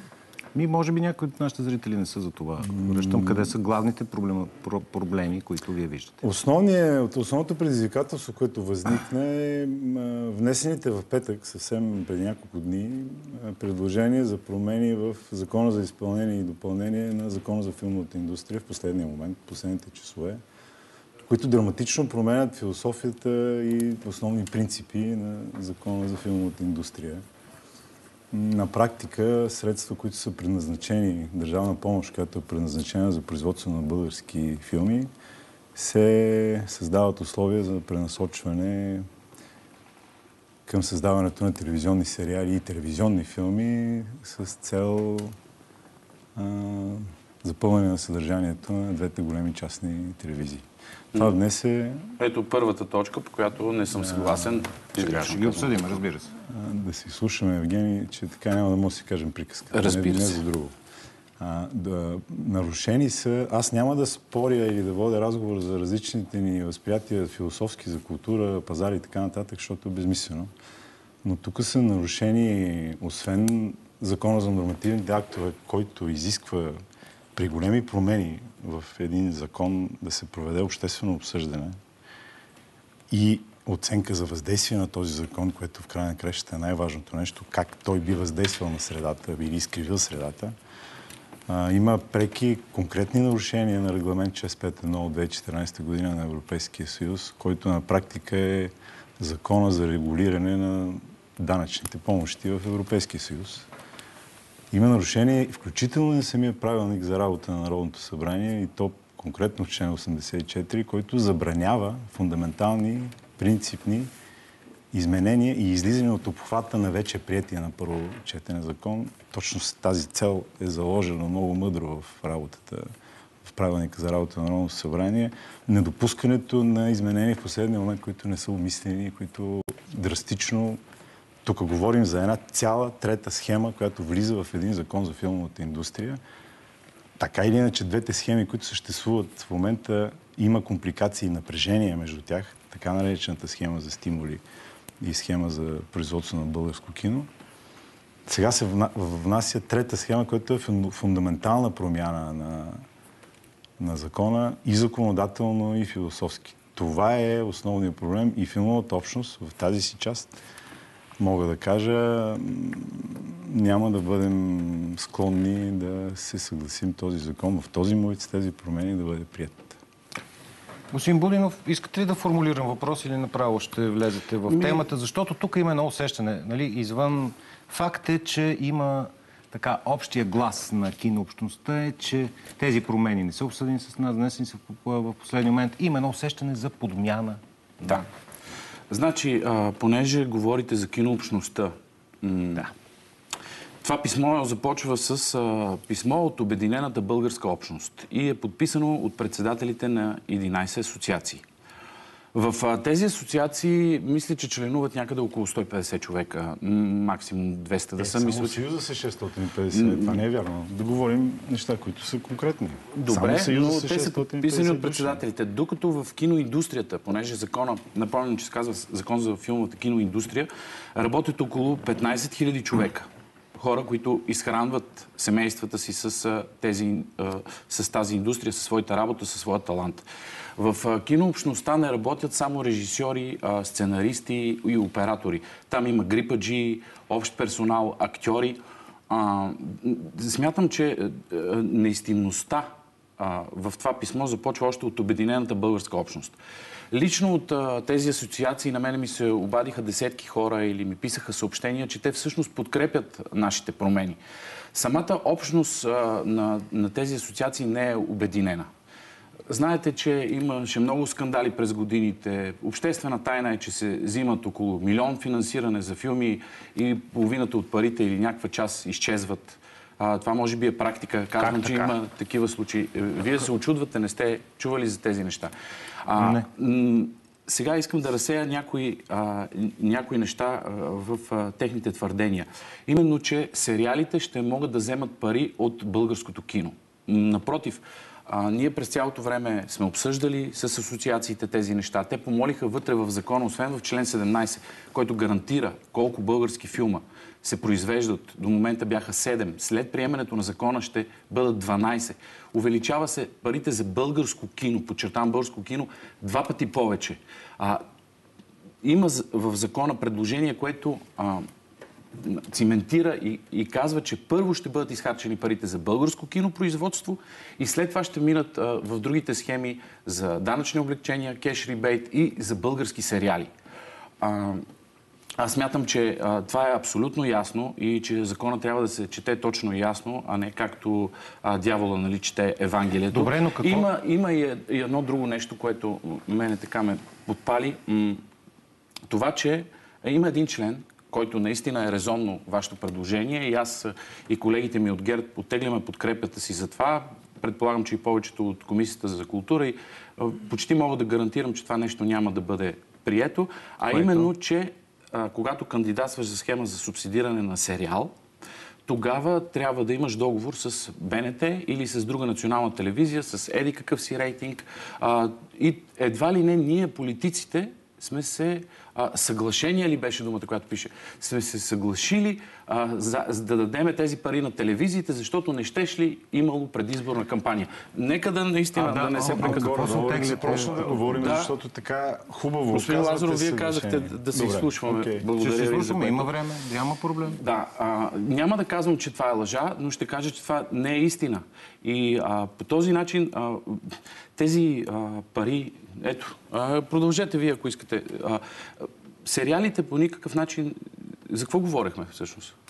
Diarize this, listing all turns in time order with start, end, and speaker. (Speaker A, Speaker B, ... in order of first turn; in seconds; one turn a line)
Speaker A: 0.5-6.2
Speaker B: 2.8-3.4
Speaker B: 6.2-20.4
Speaker B: 21.3-27.2
Speaker B: 28.3-35.1
Speaker B: 35.7-39.1
Speaker B: 40.7-45.3
Speaker B: 46.3-50.6
Speaker B: 51.1-52.1
Speaker C: 52.2-56.0
Speaker A: 54.9-56.3
Speaker B: 56.5-60.7
Speaker C: 59.7-60.4
Speaker B: 61.4-70.5
Speaker B: 71.2-76.8
Speaker B: 77.3-81.8
Speaker B: 83.1-90.5
Speaker B: 91.5-103.7
Speaker B: 104.7-114.1
Speaker B: 114.9-122.9
Speaker B: 123.5-130.8
Speaker B: 131.4-136.2
Speaker B: 137.2-144.4
Speaker B: 145.0-147.3
Speaker B: 148.3-152.8
Speaker B: 153.8-160.3
Speaker B: 161.2-169.8
Speaker A: 170.9-188.1
Speaker C: 174.5-174.8
Speaker C: 188.9-192.7
Speaker C: 193.8-201.4
Speaker C: 202.3-208.6
Speaker B: 208.0-215.2
Speaker C: 209.7-210.2
Speaker C: 212.9-230.0
Speaker C: 230.6-246.3
Speaker C: 246.9-254.2
Speaker C: 254.7-258.7
Speaker C: 259.5-275.5
Speaker A: 271.4-271.9
Speaker C: 276.0-307.8
Speaker A: 276.1-276.5
Speaker C: 308.8-311.5
Speaker C: 312.2-323.5
Speaker C: 324.2-324.6
Speaker C: 325.4-338.2
Speaker A: 333.1-333.9
Speaker C: 339.1-358.1
Speaker A: 353.9-354.3
Speaker C: 358.9-381.5
Speaker A: 378.8-381.4
Speaker B: 379.0-385.2
Speaker C: 382.7-386.3
Speaker A: 385.4-387.4
Speaker C: 387.3-402.5